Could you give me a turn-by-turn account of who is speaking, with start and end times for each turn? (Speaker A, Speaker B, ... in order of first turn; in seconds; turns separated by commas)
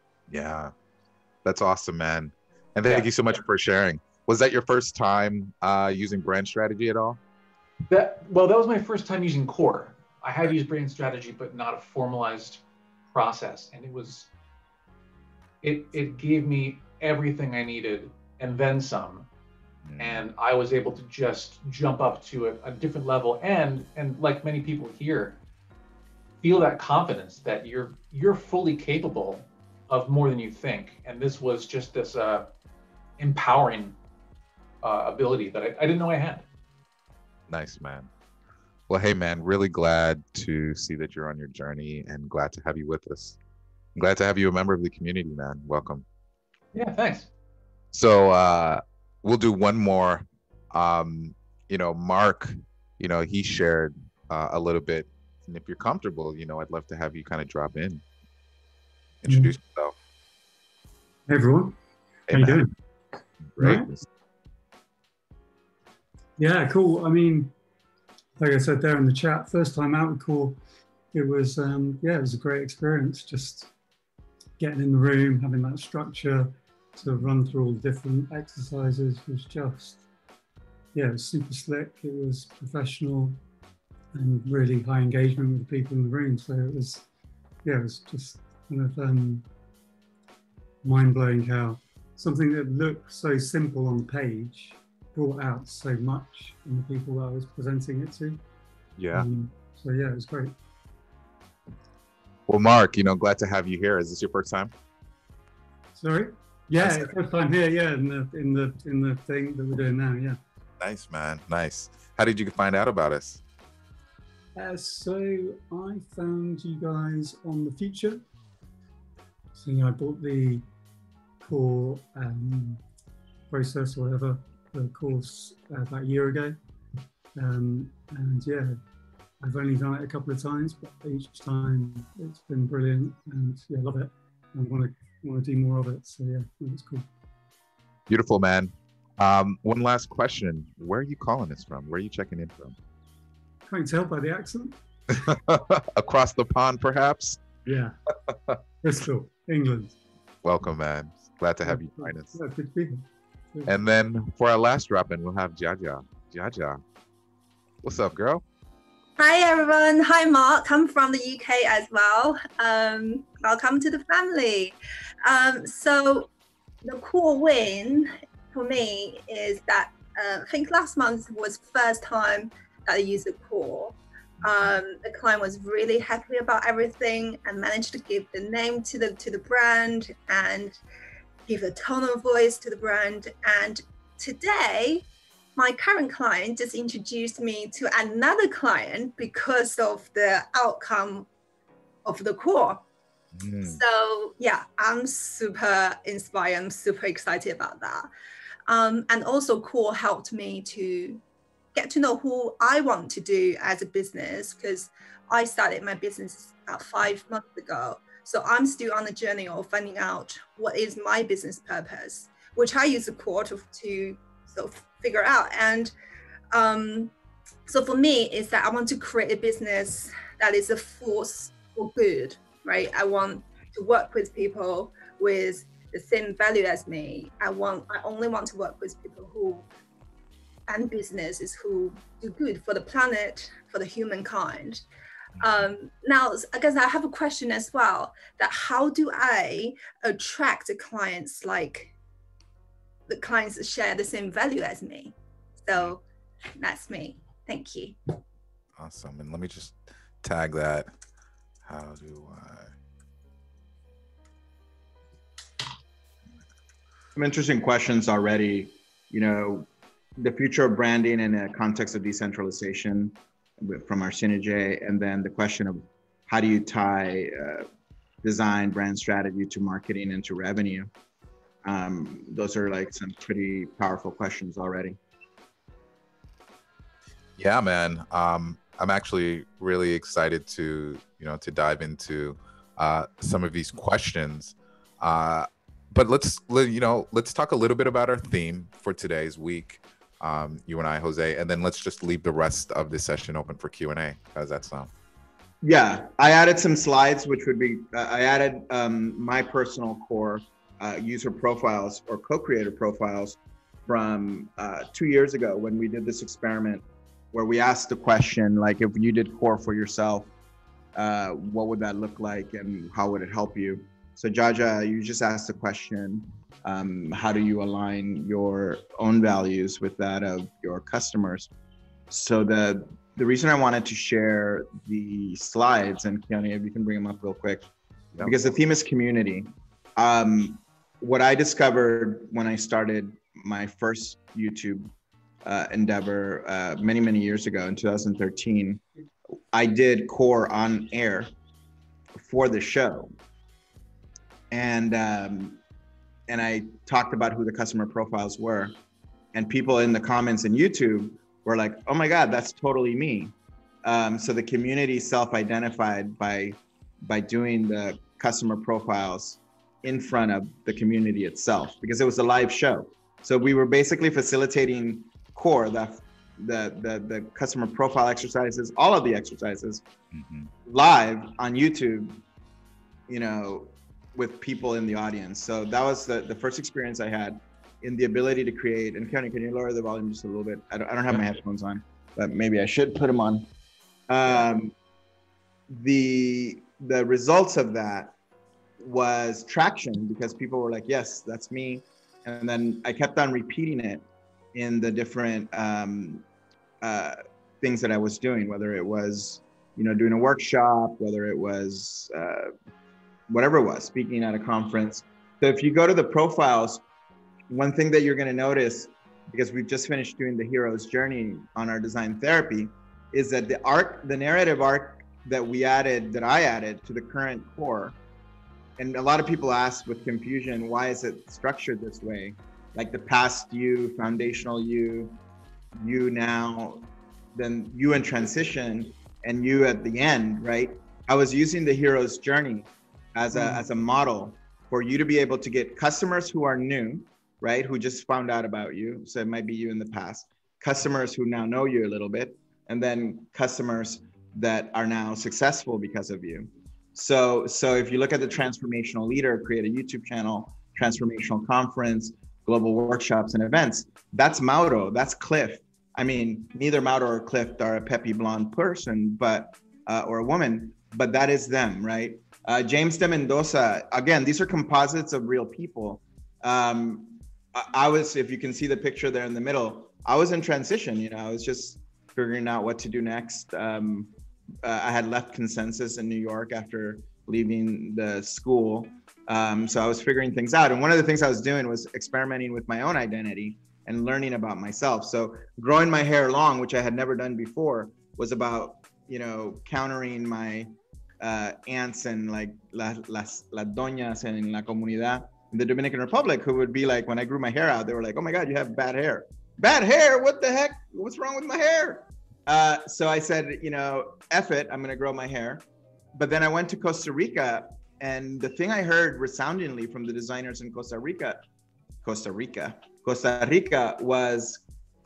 Speaker A: 0.3-0.7, Speaker A: 1.4-7.2, Speaker B: 7.9-14.3, Speaker B: 15.6-19.3, Speaker A: 19.9-20.2, Speaker B: 20.0-25.4, Speaker B: 26.4-32.5, Speaker B: 33.2-34.0, Speaker B: 34.8-36.5, Speaker A: 37.5-38.1, Speaker A: 38.9-43.4, Speaker A: 44.0-46.0, Speaker B: 46.7-47.3, Speaker A: 47.9-58.0, Speaker A: 59.2-60.0, Speaker C: 59.3-59.5, Speaker C: 61.3-61.8, Speaker A: 62.3-62.6, Speaker C: 62.3-62.7, Speaker A: 63.6-64.0, Speaker C: 63.6-63.9, Speaker C: 66.4-67.5, Speaker C: 68.4-70.6, Speaker C: 71.1-73.7, Speaker C: 74.6-80.0, Speaker A: 77.0-77.3, Speaker C: 80.9-83.4, Speaker C: 84.1-87.1, Speaker C: 87.6-89.5, Speaker C: 90.8-98.4, Speaker A: 99.0-99.3, Speaker C: 99.1-100.5, Speaker A: 102.5-104.7, Speaker C: 106.0-110.4, Speaker A: 106.8-107.1, Speaker A: 110.8-113.4, Speaker C: 114.6-118.2, Speaker C: 119.5-120.7, Speaker C: 121.4-122.8, Speaker C: 123.5-126.6, Speaker C: 127.3-128.8, Speaker C: 129.4-137.1, Speaker A: 138.1-142.8, Speaker C: 143.7-144.8, Speaker A: 145.1-147.4, Speaker C: 147.7-148.0, Speaker A: 148.3-148.6, Speaker C: 148.8-150.0, Speaker A: 150.4-152.3, Speaker C: 151.6-153.7, Speaker A: 153.7-156.8, Speaker A: 157.8-158.4, Speaker D: 159.2-166.3, Speaker D: 166.8-180.8, Speaker A: 174.4-174.8, Speaker D: 181.5-185.1, Speaker D: 185.6-191.3, Speaker D: 192.1-192.8, Speaker A: 193.4-193.8, Speaker D: 193.6-198.1, Speaker D: 198.7-201.2, Speaker D: 201.8-215.9, Speaker D: 216.5-217.1, Speaker D: 217.7-229.7, Speaker D: 230.7-234.8, Speaker A: 235.4-235.7, Speaker D: 235.4-241.9, Speaker D: 243.1-246.0, Speaker D: 246.6-248.0, Speaker A: 248.8-250.9, Speaker A: 251.7-252.7, Speaker E: 257.2-267.7, Speaker E: 268.2-270.9, Speaker E: 271.6-275.0, Speaker A: 277.4-294.9, Speaker E: 295.6-310.3, Speaker E: 310.9-321.5, Speaker E: 322.1-327.7, Speaker E: 328.2-334.9, Speaker E: 335.4-338.8, Speaker E: 339.5-341.3, Speaker E: 342.2-343.1, Speaker E: 344.5-345.6, Speaker E: 346.3-348.7, Speaker E: 349.3-369.8, Speaker A: 370.1-370.5, Speaker E: 370.7-372.2, Speaker E: 373.1-383.5, Speaker E: 384.1-384.7, Speaker E: 385.7-388.1, Speaker E: 388.8-394.0, Speaker E: 394.5-396.2, Speaker E: 396.8-402.5, Speaker E: 403.3-406.8, Speaker E: 407.5-417.9, Speaker E: 418.8-425.2, Speaker E: 425.8-474.1, Speaker E: 474.6-505.6, Speaker E: 506.1-511.4, Speaker E: 512.0-514.6